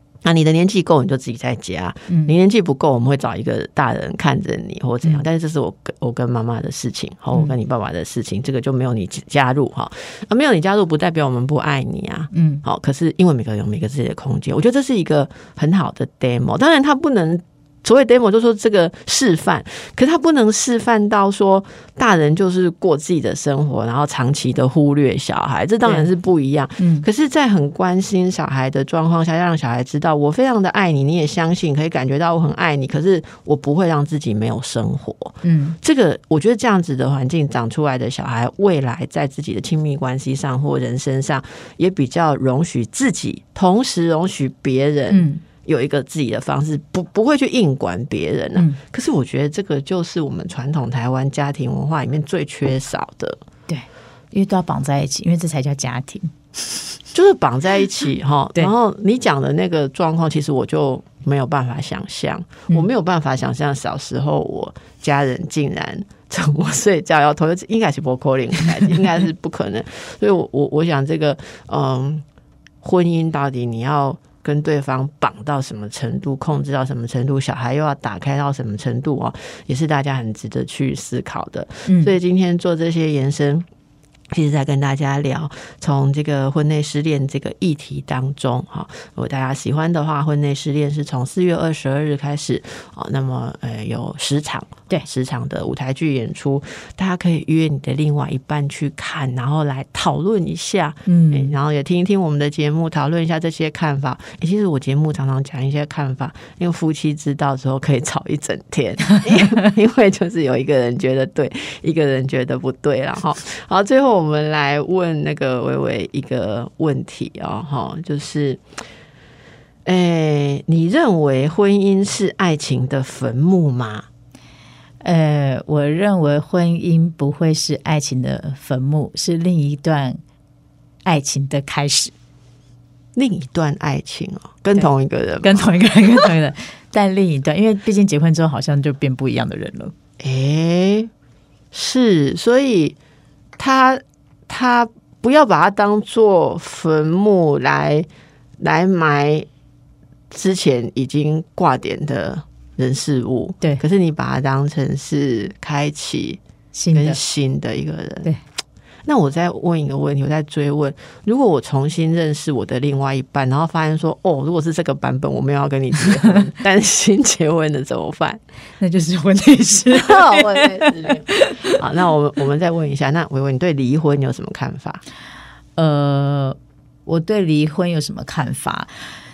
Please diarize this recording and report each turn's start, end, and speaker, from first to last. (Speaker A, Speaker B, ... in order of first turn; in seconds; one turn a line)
Speaker A: 0.2-53.4
Speaker B: 12.3-12.6
Speaker B: 26.8-27.1
Speaker B: 35.4-35.8
Speaker B: 45.1-45.4
Speaker B: 53.7-57.0
Speaker A: 57.1-72.2
Speaker A: 72.8-83.7
Speaker B: 81.9-82.1
Speaker A: 84.3-118.6
Speaker B: 101.1-101.5
Speaker A: 119.9-124.1
Speaker B: 125.0-130.2
Speaker B: 131.1-132.1
Speaker A: 133.2-135.6
Speaker B: 135.4-139.9
Speaker A: 140.2-141.1
Speaker A: 141.7-143.0
Speaker A: 143.6-148.1
Speaker A: 148.6-149.5
Speaker A: 150.3-156.4
Speaker B: 156.7-157.2
Speaker A: 156.9-158.3
Speaker A: 159.1-168.4
Speaker B: 168.8-171.8
Speaker A: 169.9-175.0
Speaker B: 175.8-178.9